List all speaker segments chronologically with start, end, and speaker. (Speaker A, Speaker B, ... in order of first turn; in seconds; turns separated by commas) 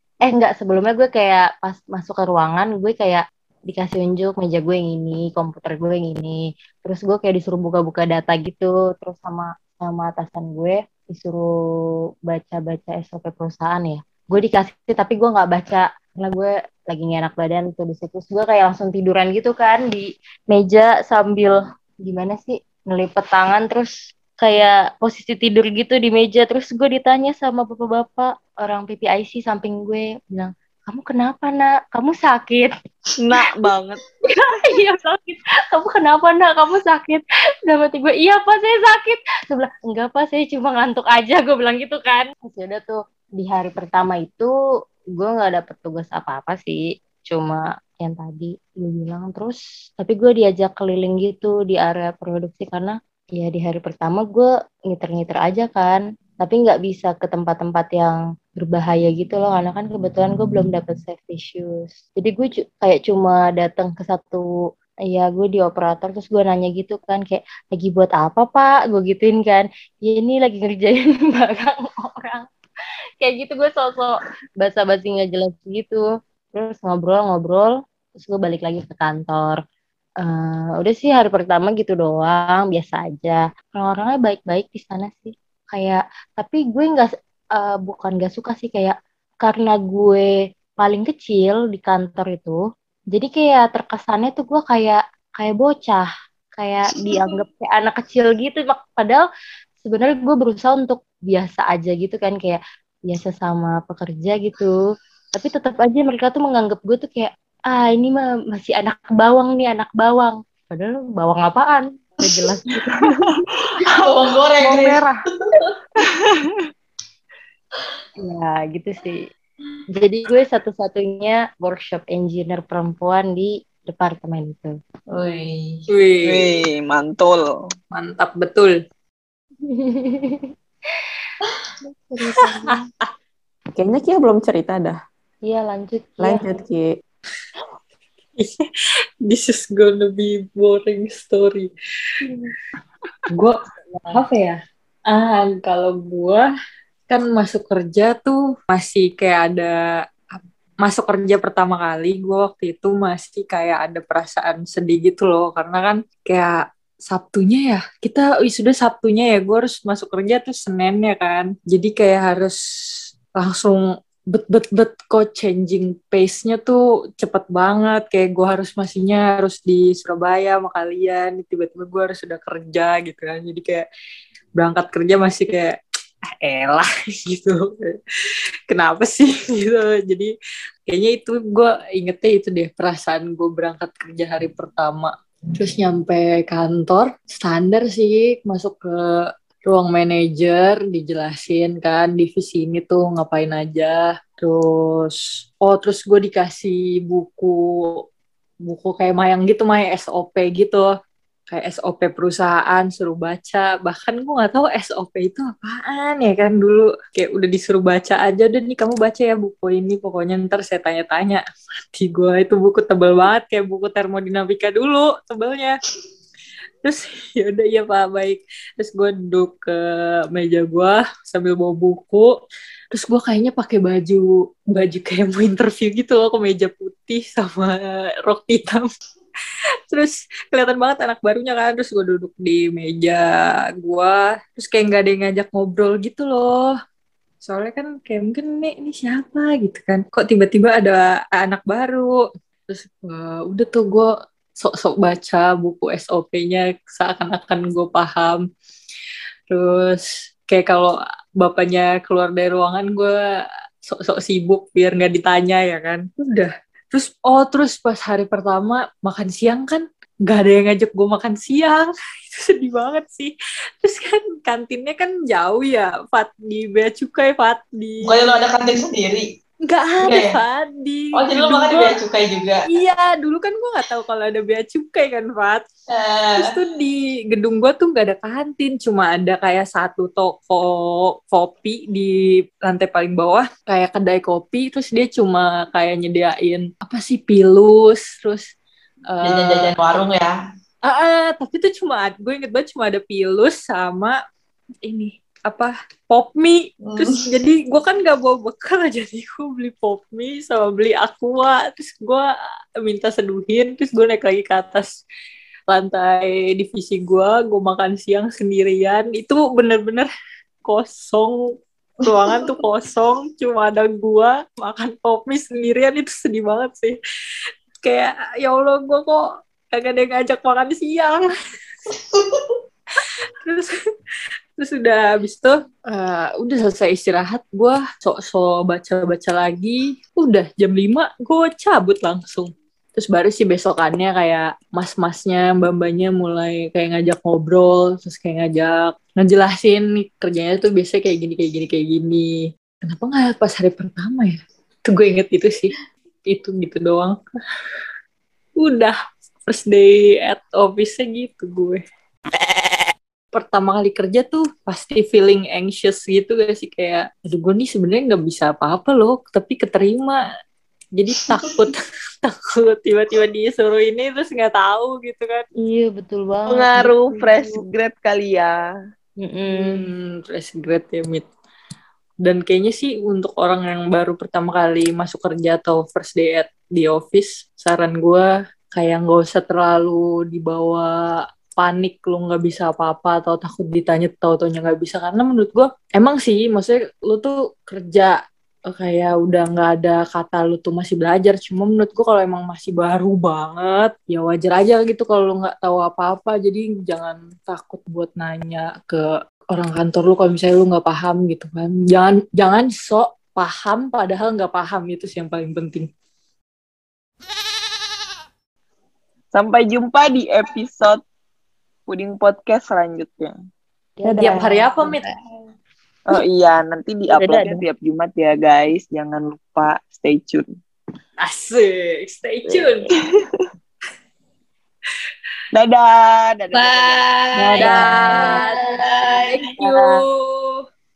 Speaker A: 0.2-11.5, Speaker A: 12.3-32.7, Speaker B: 33.2-34.0, Speaker A: 34.2-44.5, Speaker A: 45.2-64.5, Speaker A: 65.1-72.5, Speaker A: 73.2-76.0, Speaker A: 76.5-79.6, Speaker A: 80.2-90.2, Speaker A: 90.8-92.6, Speaker A: 93.1-99.2, Speaker A: 99.8-104.7, Speaker A: 105.3-113.0, Speaker C: 114.0-115.0, Speaker D: 114.6-115.1, Speaker B: 116.1-116.6, Speaker A: 118.2-119.2, Speaker A: 119.9-124.7, Speaker C: 125.1-125.9, Speaker E: 125.9-126.5, Speaker B: 126.2-127.5, Speaker E: 127.9-128.8, Speaker A: 129.7-130.5, Speaker A: 132.2-132.5, Speaker E: 132.3-133.1, Speaker D: 133.8-135.0, Speaker A: 135.4-136.4, Speaker D: 136.2-136.9, Speaker E: 139.3-141.7, Speaker E: 143.3-143.6, Speaker A: 143.9-144.2, Speaker E: 144.1-144.6, Speaker E: 145.1-146.4, Speaker E: 147.1-149.7, Speaker E: 150.3-162.6, Speaker E: 163.4-173.8, Speaker E: 174.6-175.8, Speaker E: 176.4-178.0, Speaker E: 178.7-180.3, Speaker E: 180.9-198.0, Speaker E: 198.7-200.9, Speaker E: 201.5-211.4, Speaker E: 211.9-215.8, Speaker E: 216.8-222.3, Speaker E: 222.9-228.9, Speaker E: 229.9-233.3, Speaker E: 233.8-236.8, Speaker E: 237.4-242.1, Speaker E: 242.7-248.4, Speaker E: 249.5-253.1, Speaker E: 253.9-268.2, Speaker C: 268.0-269.3, Speaker E: 269.6-272.0, Speaker C: 270.0-270.4, Speaker C: 271.1-272.7, Speaker E: 272.6-275.6, Speaker C: 275.9-276.6, Speaker E: 276.3-282.1, Speaker E: 282.6-288.4, Speaker E: 289.1-289.8, Speaker C: 289.2-290.3, Speaker E: 290.8-294.1, Speaker E: 294.8-302.3, Speaker C: 296.8-297.2, Speaker E: 302.8-304.9, Speaker E: 305.7-310.1, Speaker E: 310.6-311.4, Speaker E: 312.0-316.9, Speaker C: 312.1-312.5, Speaker E: 317.8-321.3, Speaker C: 322.1-322.5, Speaker E: 323.0-323.7, Speaker E: 324.6-345.7, Speaker E: 346.2-347.2, Speaker E: 348.6-348.9, Speaker E: 349.4-351.8, Speaker E: 353.3-360.2, Speaker E: 361.0-365.4, Speaker A: 365.6-367.6, Speaker B: 366.5-368.6, Speaker A: 369.2-369.9, Speaker E: 369.5-371.3, Speaker E: 372.2-388.1, Speaker E: 388.7-405.9, Speaker B: 409.3-411.0, Speaker B: 411.9-413.3, Speaker A: 414.0-414.9, Speaker D: 414.0-414.6, Speaker E: 414.2-415.0, Speaker B: 416.1-420.4, Speaker A: 417.2-417.5, Speaker E: 421.2-422.9, Speaker B: 422.5-423.1, Speaker B: 425.5-427.1, Speaker C: 426.6-427.2, Speaker A: 427.4-428.4, Speaker E: 427.5-428.6, Speaker E: 429.1-430.6, Speaker A: 429.6-430.0